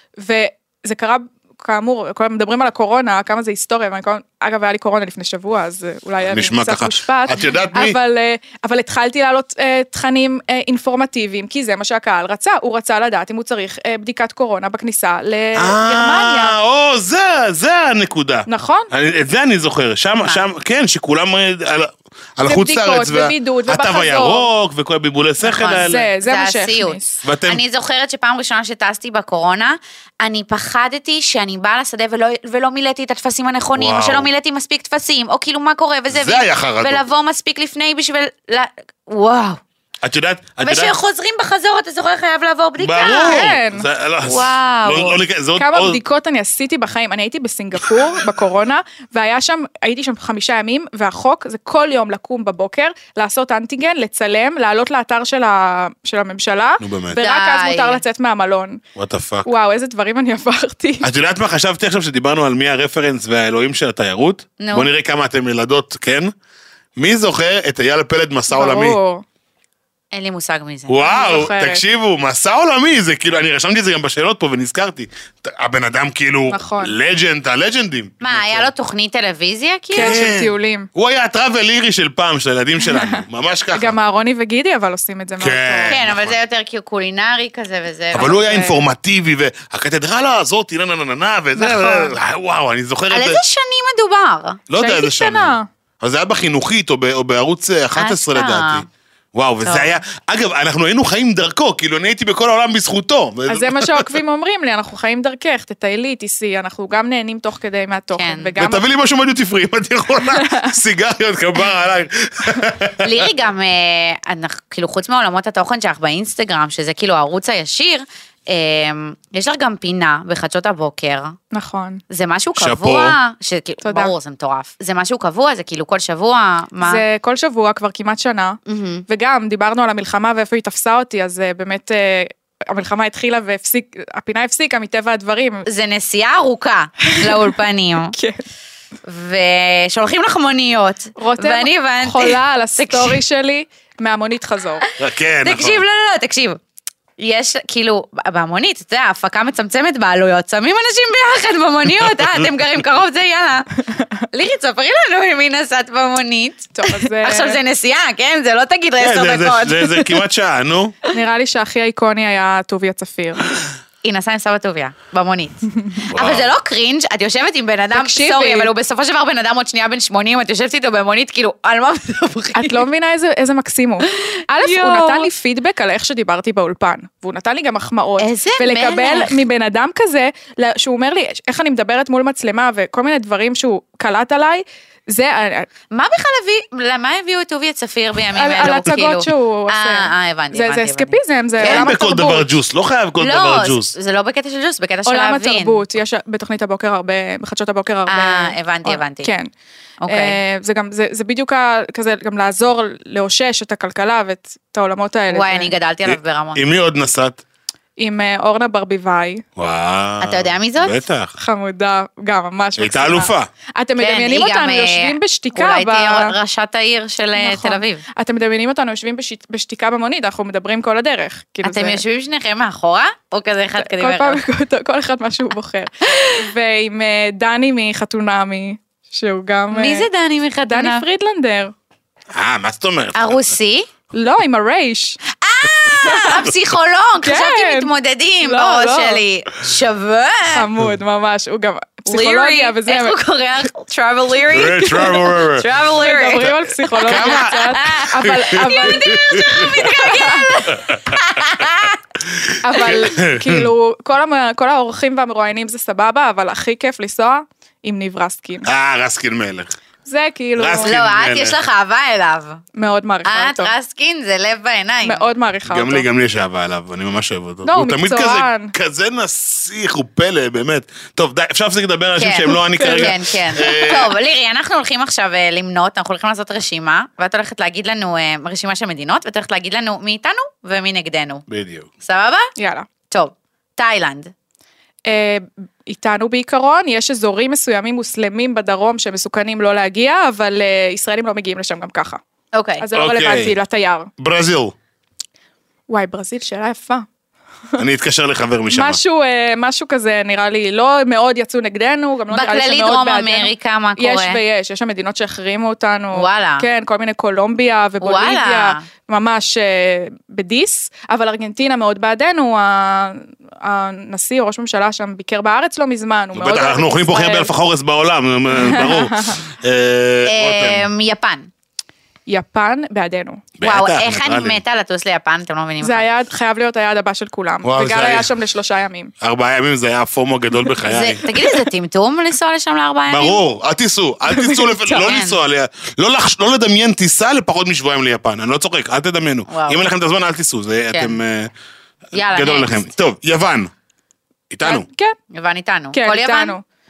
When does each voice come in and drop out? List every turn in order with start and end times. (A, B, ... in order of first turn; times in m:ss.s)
0:00.2-0:16.6 A
0:06.3-0:08.0 B
0:15.6-0:26.0 B
0:18.5-0:18.9 A
0:22.4-0:24.5 A
0:25.4-0:39.6 C
0:25.5-0:27.2 A
0:27.2-0:27.6 B
0:33.8-0:34.3 B
0:36.1-0:37.0 B
0:40.0-0:40.9 B
0:40.6-0:43.4 C
0:42.8-0:46.0 B
0:43.0-0:43.8 A
0:44.2-0:45.2 C
0:45.6-0:58.8 A
0:56.8-0:57.2 B
0:57.2-0:58.0 C
0:59.0-0:59.5 B
0:59.4-1:01.0 A
1:01.0-1:06.3 B
1:04.6-1:04.9 C
1:07.0-1:09.0 B
1:08.5-1:09.2 A
1:10.1-1:11.1 C
1:10.9-1:18.7 B
1:11.0-1:11.8 A
1:16.5-1:16.9 A
1:18.2-1:20.2 C
1:19.9-1:20.9 A
1:20.0-1:23.9 B
1:22.8-1:23.2 A
1:23.7-1:26.0 A
1:25.4-1:26.4 B
1:25.9-1:28.3 C
1:28.1-1:33.4 B
1:28.1-1:28.8 A
1:31.6-1:32.2 C
1:33.1-1:34.6 C
1:34.7-1:44.1 B
1:34.8-1:35.7 A
1:37.9-1:38.8 C
1:39.6-1:40.0 C
1:43.5-1:48.8 A
1:48.2-1:48.6 C
1:48.6-1:53.2 B
1:53.0-2:01.4 C
2:01.5-2:02.0 A
2:02.1-2:07.0 C
2:02.6-2:03.2 B
2:03.8-2:04.1 A
2:06.8-2:15.6 A
2:08.7-2:09.0 C
2:15.6-2:18.1 C
2:17.1-2:17.5 A
2:18.1-2:18.4 A
2:19.0-2:23.2 C
2:21.2-2:24.8 A
2:25.0-2:25.8 B
2:25.4-2:26.6 C
2:27.2-2:33.7 C
2:34.3-2:40.2 C
2:36.7-2:37.6 A
2:39.0-2:41.0 B
2:41.1-2:43.4 A
2:44.0-2:52.8 C
2:46.1-2:46.5 B
2:47.9-2:48.7 A
2:52.5-3:05.7 A
2:54.1-2:55.3 C
2:58.2-2:59.4 C
3:05.9-3:11.9 C
3:08.3-3:12.5 A
3:11.6-3:13.9 B
3:13.2-3:15.8 C
3:15.0-3:19.5 A
3:18.1-3:19.3 C
3:20.0-3:20.4 C
3:20.1-3:25.7 A
3:25.3-3:26.6 C
3:26.0-3:27.4 B
3:28.0-3:29.4 A
3:29.6-3:31.3 B
3:30.2-3:31.0 C
3:31.4-3:36.3 A
3:32.8-3:33.5 B
3:34.0-3:38.0 C
3:37.4-3:42.0 A
3:41.6-3:44.4 C
3:43.8-3:50.1 A
3:46.0-3:46.3 C
3:49.7-3:51.0 C
3:50.7-3:51.7 A
3:52.3-3:53.5 B
3:53.1-3:53.9 C
3:54.1-3:55.2 A
3:55.3-4:00.7 C
3:56.0-3:56.5 A
3:57.2-3:59.2 A
4:00.5-4:03.2 A
4:02.1-4:12.0 C
4:04.5-4:05.7 B
4:06.0-4:10.6 A
4:06.9-4:10.0 B
4:10.7-4:11.6 B
4:12.3-4:13.7 B
4:12.6-4:18.7 A
4:18.6-4:19.7 B
4:20.0-4:21.0 A
4:20.6-4:21.6 B
4:20.8-4:22.6 C
4:22.7-4:23.7 A
4:23.2-4:25.2 C
4:25.0-4:26.0 A
4:25.7-4:34.1 B
4:27.6-4:28.7 A
4:32.2-4:41.4 C
4:32.6-4:33.8 A
4:41.5-4:41.9 B
4:42.0-4:42.5 C
4:42.6-4:42.9 A
4:43.1-4:44.3 C
4:45.0-4:52.2 A
4:52.5-4:52.8 C
4:52.8-4:54.1 A
4:52.9-4:53.5 B
4:54.2-4:54.7 B
4:55.9-4:57.0 A
4:57.8-4:59.0 B
4:58.7-5:17.5 A
5:02.3-5:04.4 C
5:06.1-5:06.7 C
5:08.0-5:08.8 C
5:16.3-5:20.9 B
5:18.6-5:19.4 A
5:20.2-5:21.5 C
5:22.3-5:23.5 A
5:23.6-5:24.6 B
5:23.6-5:26.0 C
5:25.8-5:29.1 A
5:27.6-5:28.3 B
5:29.2-5:31.3 B
5:30.8-5:33.4 C
5:33.1-5:41.5 B
5:34.3-5:35.0 A
5:35.0-5:35.4 C
5:39.5-5:39.8 C
5:40.9-5:41.2 C
5:42.1-5:42.9 C
5:42.3-5:43.7 B
5:44.5-5:44.8 B
5:44.6-5:45.2 A
5:45.3-5:46.6 C
5:45.9-5:46.6 A